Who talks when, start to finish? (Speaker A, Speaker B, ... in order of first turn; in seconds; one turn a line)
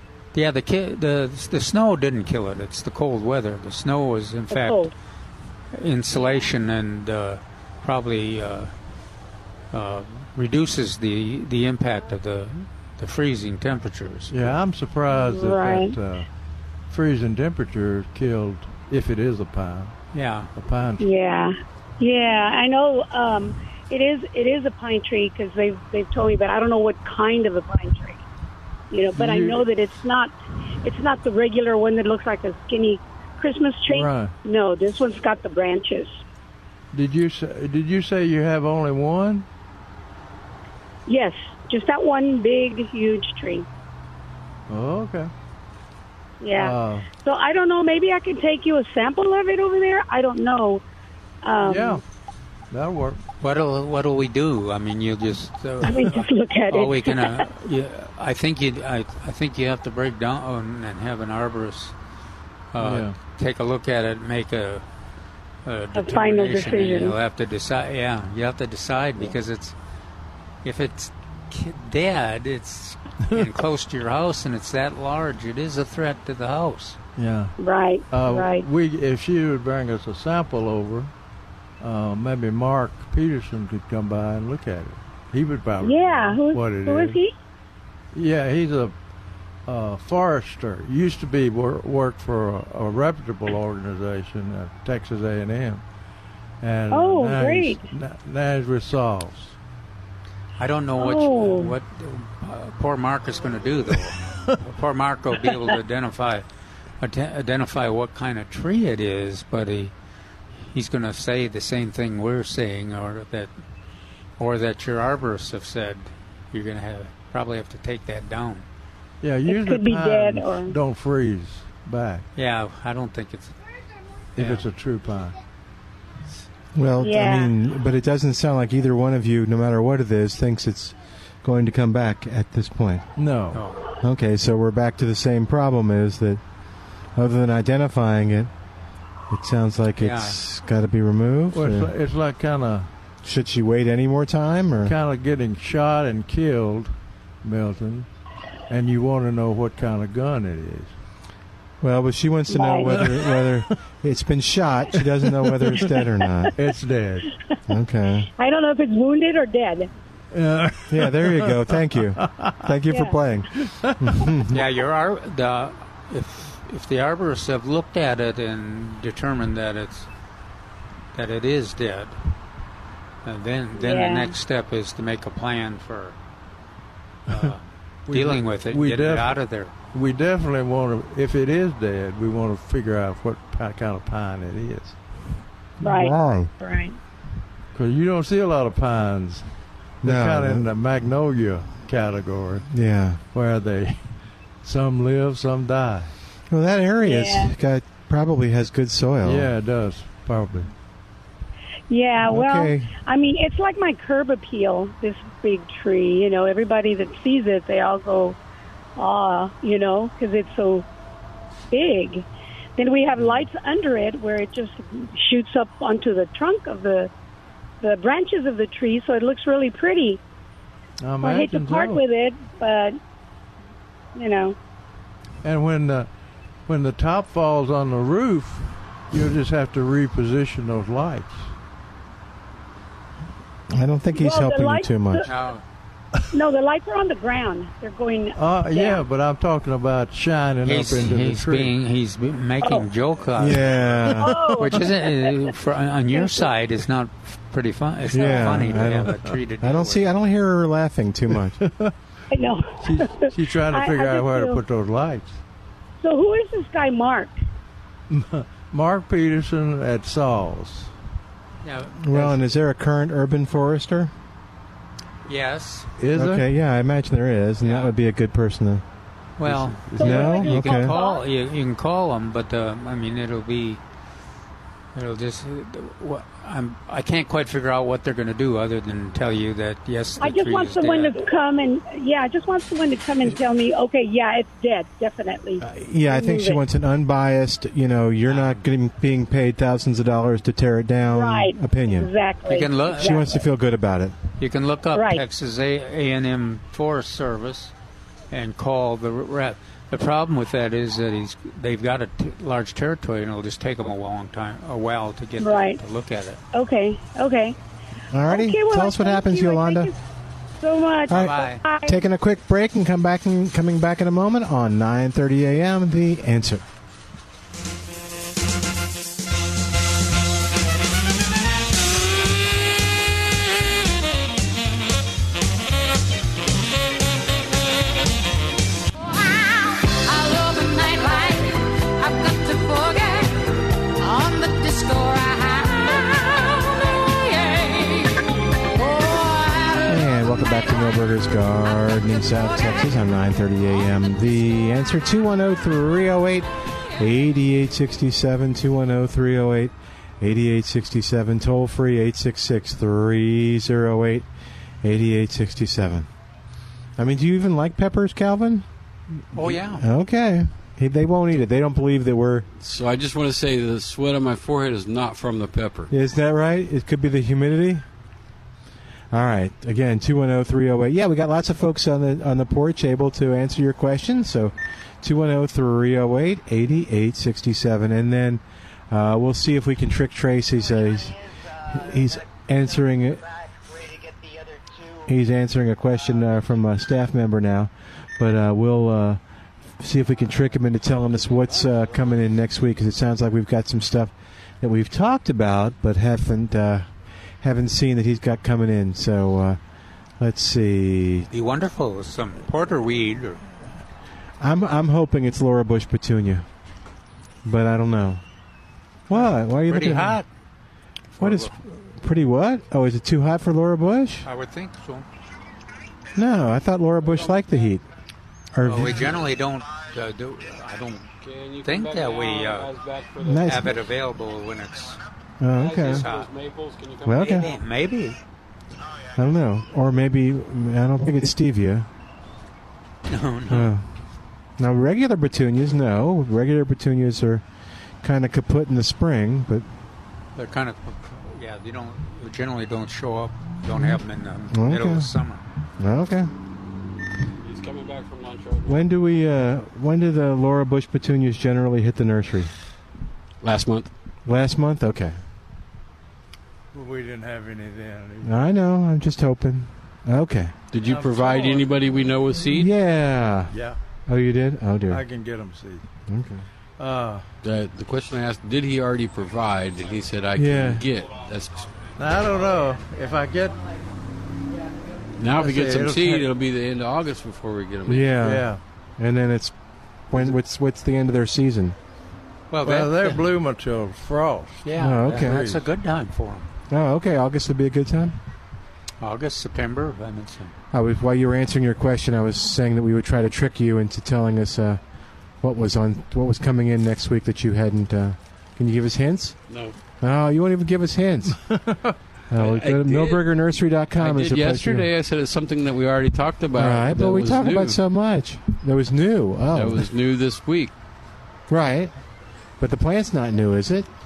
Speaker A: 0.3-4.9
Speaker B: 4.5-4.9
Speaker A: 5.7-8.7
Speaker A: 9.7-14.6
Speaker C: 14.3-16.3
Speaker B: 15.2-15.9
Speaker C: 16.9-19.9
Speaker A: 20.1-20.5
Speaker C: 20.6-21.1
Speaker B: 21.0-28.2
Speaker B: 28.9-36.2
Speaker C: 29.1-29.7
Speaker C: 33.9-34.4
Speaker C: 36.9-39.5
Speaker B: 41.1-43.7
Speaker C: 44.7-45.3
Speaker B: 46.4-50.8
Speaker C: 46.6-47.1
Speaker B: 51.4-52.0
Speaker C: 51.6-52.0
Speaker C: 52.7-53.2
Speaker A: 53.4-61.9
Speaker B: 55.9-57.4
Speaker A: 62.7-64.9
Speaker C: 62.8-63.1
Speaker A: 65.7-69.8
Speaker B: 66.0-67.2
Speaker A: 70.6-77.0
Speaker C: 77.2-77.5
Speaker B: 77.6-78.7
Speaker C: 78.1-81.1
Speaker C: 81.8-87.2
Speaker B: 85.8-87.3
Speaker C: 88.1-88.9
Speaker C: 89.7-95.8
Speaker C: 96.6-99.6
Speaker B: 96.9-97.8
Speaker A: 100.6-106.5
Speaker B: 101.0-101.7
Speaker C: 104.3-104.5
Speaker A: 107.0-109.9
Speaker A: 110.7-113.5
Speaker A: 114.4-118.7
Speaker C: 119.2-122.3
Speaker B: 119.5-120.8
Speaker A: 122.4-123.6
Speaker C: 124.4-125.4
Speaker A: 124.4-124.7
Speaker D: 126.8-133.1
Speaker B: 127.0-127.5
Speaker C: 133.2-133.6
Speaker A: 133.5-133.8
Speaker D: 134.0-136.4
Speaker D: 137.2-138.5
Speaker D: 139.3-141.9
Speaker A: 140.0-140.4
Speaker C: 141.5-142.9
Speaker D: 143.2-144.9
Speaker C: 144.8-146.9
Speaker C: 147.4-148.1
Speaker C: 148.7-150.9
Speaker D: 151.8-156.5
Speaker B: 152.5-152.9
Speaker C: 152.9-153.8
Speaker C: 155.0-155.8
Speaker C: 156.6-157.3
Speaker D: 157.7-158.3
Speaker B: 158.4-159.9
Speaker C: 160.3-162.6
Speaker D: 160.9-163.5
Speaker B: 162.9-163.2
Speaker C: 163.6-164.2
Speaker D: 164.0-164.6
Speaker A: 164.5-170.1
Speaker A: 171.1-172.2
Speaker A: 173.2-176.2
Speaker B: 173.8-174.3
Speaker A: 177.3-179.7
Speaker C: 178.1-179.4
Speaker C: 179.9-185.0
Speaker D: 185.8-186.5
Speaker B: 185.8-187.0
Speaker C: 187.8-189.5
Speaker D: 190.0-190.7
Speaker C: 190.0-192.7
Speaker D: 192.7-193.2
Speaker C: 193.3-194.0
Speaker C: 194.6-196.1
Speaker D: 196.5-199.5
Speaker B: 197.0-197.5
Speaker C: 199.2-200.7
Speaker B: 201.9-208.4
Speaker D: 202.2-202.9
Speaker B: 209.0-210.9
Speaker B: 211.7-212.3
Speaker B: 212.8-217.1
Speaker C: 213.2-213.4
Speaker B: 217.8-220.2
Speaker C: 221.0-222.0
Speaker B: 221.2-223.0
Speaker B: 224.2-224.6
Speaker C: 225.4-226.1
Speaker C: 226.7-231.5
Speaker D: 233.7-235.3
Speaker B: 234.2-235.3
Speaker A: 235.2-235.6
Speaker B: 236.3-239.0
Speaker C: 238.4-241.7
Speaker A: 240.7-250.1
Speaker B: 242.6-242.9
Speaker D: 243.4-244.4
Speaker B: 244.2-244.9
Speaker D: 248.1-251.6
Speaker C: 251.6-251.9
Speaker B: 252.3-254.6
Speaker C: 252.8-255.4
Speaker B: 256.0-257.3
Speaker C: 258.1-260.9
Speaker A: 261.6-262.5
Speaker D: 262.0-264.1
Speaker A: 265.3-265.9
Speaker C: 266.0-266.5
Speaker D: 266.1-268.8
Speaker A: 267.6-267.9
Speaker A: 269.4-273.8
Speaker C: 269.5-270.2
Speaker B: 270.0-271.2
Speaker D: 270.0-270.9
Speaker A: 274.9-281.2
Speaker B: 280.2-286.6
Speaker D: 285.6-292.1
Speaker A: 288.3-288.6
Speaker B: 291.1-293.3
Speaker A: 292.5-293.4
Speaker D: 292.9-294.2
Speaker A: 294.4-297.7
Speaker B: 294.9-295.2
Speaker A: 298.3-306.4
Speaker B: 305.4-305.8
Speaker B: 306.5-307.6
Speaker D: 308.1-309.9
Speaker B: 308.3-310.0
Speaker B: 310.6-312.0
Speaker A: 311.1-311.6
Speaker D: 311.1-316.6
Speaker E: 329.1-333.4
Speaker E: 334.0-340.1
Speaker D: 339.9-354.3
Speaker E: 342.3-342.8
Speaker D: 354.8-356.1
Speaker D: 357.0-358.7
Speaker A: 359.3-359.9
Speaker D: 359.4-362.5
Speaker F: 362.6-365.9
Speaker D: 365.9-367.9
Speaker D: 369.1-383.3
Speaker D: 385.0-389.2
Speaker D: 389.8-396.9
Speaker D: 397.4-399.6
Speaker D: 400.2-401.3
Speaker A: 401.3-403.4
Speaker D: 404.4-406.4
Speaker D: 407.4-408.2
Speaker D: 409.1-410.2
Speaker A: 409.1-410.3
Speaker A: 411.1-411.5
Speaker D: 411.2-414.3
Speaker A: 414.2-415.1
Speaker D: 416.1-417.9
Speaker D: 418.5-419.2
Speaker A: 418.6-421.1
Speaker F: 421.2-423.7
Speaker A: 421.6-422.7
Speaker D: 423.2-423.8
Speaker A: 423.4-425.0
Speaker D: 425.4-426.1
Speaker F: 425.5-427.6
Speaker A: 425.7-426.3
Speaker D: 427.0-427.5
Speaker A: 427.1-428.2
Speaker D: 429.1-431.9
Speaker A: 433.1-433.7
Speaker D: 433.5-433.9
Speaker D: 434.6-437.4
Speaker D: 438.0-439.7
Speaker A: 440.4-445.4
Speaker D: 444.5-445.1
Speaker D: 445.8-446.3
Speaker F: 447.4-448.8
Speaker D: 448.7-452.5
Speaker F: 453.4-453.9
Speaker D: 454.2-455.2
Speaker C: 456.7-458.4
Speaker D: 458.2-460.6
Speaker F: 460.7-462.7
Speaker C: 460.8-461.8
Speaker D: 462.5-463.6
Speaker C: 463.5-463.8
Speaker D: 464.1-465.0
Speaker C: 464.9-465.9
Speaker D: 466.1-466.4
Speaker C: 466.8-467.3
Speaker F: 467.4-471.7
Speaker D: 470.4-470.9
Speaker C: 472.0-473.7
Speaker F: 475.2-478.1
Speaker C: 475.4-476.3
Speaker D: 477.9-478.5
Speaker C: 478.2-478.6
Speaker D: 479.0-479.6
Speaker D: 480.1-481.8
Speaker A: 482.5-483.2
Speaker C: 482.6-485.6
Speaker A: 484.6-486.5
Speaker D: 484.8-485.5
Speaker D: 486.7-488.2
Speaker A: 489.0-490.6
Speaker D: 490.7-494.8
Speaker D: 495.4-499.4
Speaker F: 499.5-499.8
Speaker D: 500.0-501.5
Speaker C: 501.5-501.9
Speaker D: 502.3-504.9
Speaker F: 502.4-503.2
Speaker F: 504.0-507.8
Speaker D: 506.5-509.9
Speaker F: 509.5-510.7
Speaker D: 511.5-511.9
Speaker D: 512.6-513.9